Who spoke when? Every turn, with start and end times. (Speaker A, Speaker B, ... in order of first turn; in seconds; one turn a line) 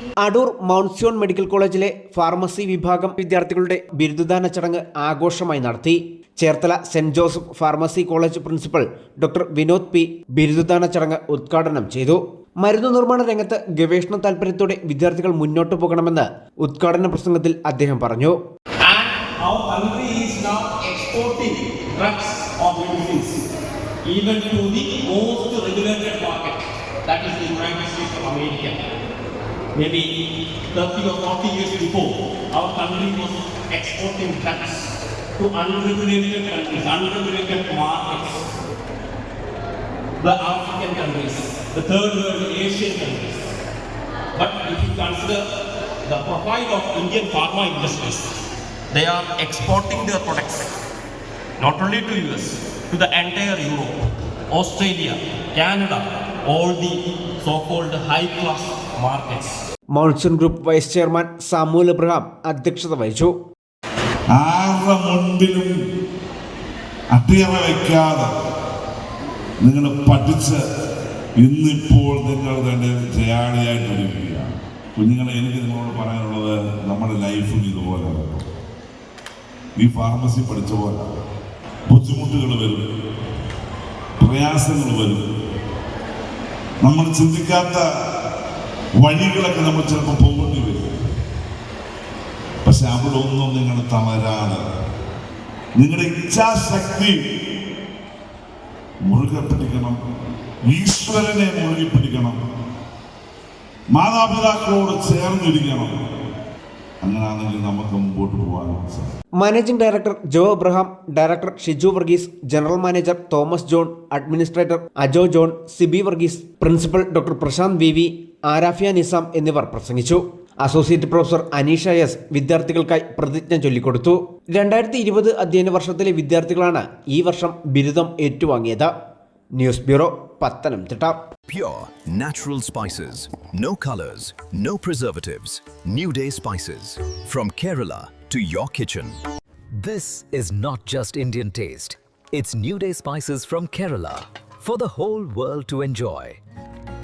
Speaker A: 0.2-18.4
Speaker B: 18.8-23.4
Speaker B: 24.1-28.8
Speaker B: 29.7-30.1
Speaker B: 30.7-38.5
Speaker B: 40.2-43.4
Speaker B: 44.4-45.4
Speaker B: 46.0-48.3
Speaker B: 48.9-50.7
Speaker B: 51.6-54.0
Speaker B: 54.5-59.6
Speaker A: 59.9-63.3
Speaker C: 64.3-65.7
Speaker C: 67.1-68.3
Speaker C: 69.6-70.6
Speaker C: 71.4-78.4
Speaker C: 79.8-81.1
Speaker C: 81.9-82.8
Speaker C: 84.2-85.2
Speaker C: 86.8-87.8
Speaker C: 89.0-91.0
Speaker C: 92.6-94.6
Speaker C: 95.7-97.2
Speaker C: 99.0-100.0
Speaker C: 100.6-102.4
Speaker C: 103.9-106.0
Speaker C: 107.0-109.1
Speaker A: 109.3-128.9
Speaker A: 129.6-131.2
Speaker D: 131.5-139.2
Speaker E: 139.8-146.4